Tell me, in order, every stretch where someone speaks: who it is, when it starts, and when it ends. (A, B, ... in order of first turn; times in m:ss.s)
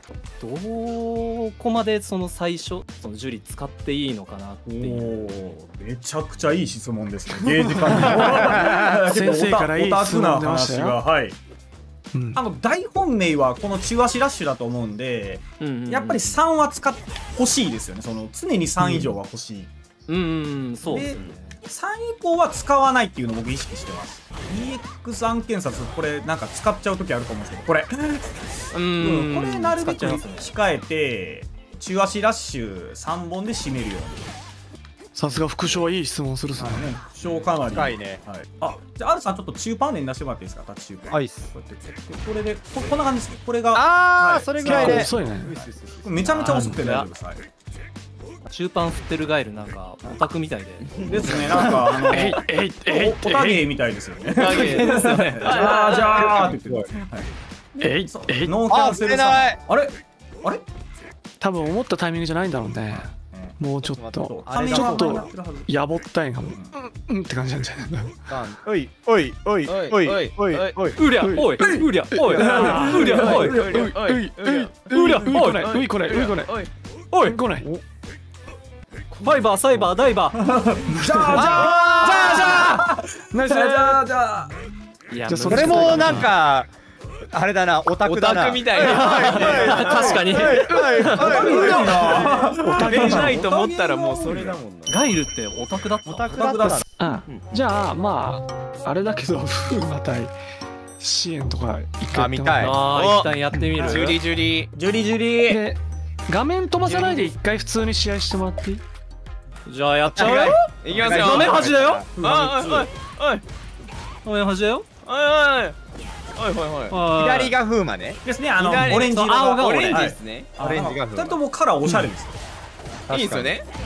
0:00.4-0:05.2 A
0:04.7-0:11.4 B
0:08.0-0:11.0 C
0:12.1-0:12.4 C
0:12.4-0:19.7 B
0:15.6-0:16.4 A
0:20.1-0:21.5 A
0:20.8-0:28.4 B
0:28.7-0:29.8 D
0:29.0-0:34.3 B
0:29.8-0:30.5 A
0:35.1-0:37.0 C
0:36.6-0:47.4 B
0:37.7-0:38.2 E
0:41.1-0:41.5 E
0:43.7-0:46.8 E
0:44.6-0:45.6 C
0:46.4-0:47.1 A
0:46.4-0:46.8 C
0:48.5-0:51.7 A
0:51.0-1:00.6 B
0:51.5-0:53.7 C
0:54.3-0:56.3 D
0:54.5-0:56.5 A
0:56.3-0:56.8 E
0:57.8-0:58.6 C
0:58.7-0:59.6 E
1:01.4-1:08.1 C
1:02.9-1:03.6 B
1:03.9-1:05.3 E
1:04.3-1:05.7 B
1:06.4-1:06.7 B
1:08.3-1:11.0 E
1:09.7-1:11.0 D
1:11.0-1:13.6 A
1:11.2-1:16.6 C
1:11.6-1:13.9 B
1:13.4-1:16.7 D
1:14.9-1:15.6 A
1:17.1-1:17.4 A
1:17.2-1:17.7 C
1:19.2-1:20.4 A
1:20.3-1:24.6 B
1:20.9-1:22.7 C
1:21.3-1:22.8 E
1:23.3-1:24.0 C
1:25.1-1:26.3 A
1:25.3-1:26.3 C
1:25.4-1:26.7 E
1:27.3-1:32.4 E
1:28.0-1:35.0 D
1:28.8-1:31.1 A
1:29.8-1:30.3 B
1:31.2-1:34.6 B
1:32.6-1:33.4 C
1:34.9-1:36.4 A
1:36.0-1:36.8 E
1:36.3-1:36.8 B
1:37.0-1:40.3 C
1:37.3-1:37.6 D
1:41.0-1:42.8 C
1:42.1-1:42.8 E
1:42.6-1:44.2 A
1:42.9-1:44.7 D
1:44.7-1:45.6 B
1:45.5-1:48.8 C
1:46.9-1:47.3 D
1:49.7-1:52.1 A
1:50.1-1:52.0 E
1:50.8-1:53.4 D
1:52.2-1:53.0 B
1:54.2-1:54.9 A
1:55.0-1:55.8 D
1:56.4-1:57.0 D
1:56.9-1:57.6 A
1:57.2-1:58.2 E
1:58.2-2:02.4 B
1:58.6-2:00.6 D
1:59.0-2:00.1 A
2:00.6-2:01.4 E
2:03.1-2:03.6 E
2:03.1-2:03.7 D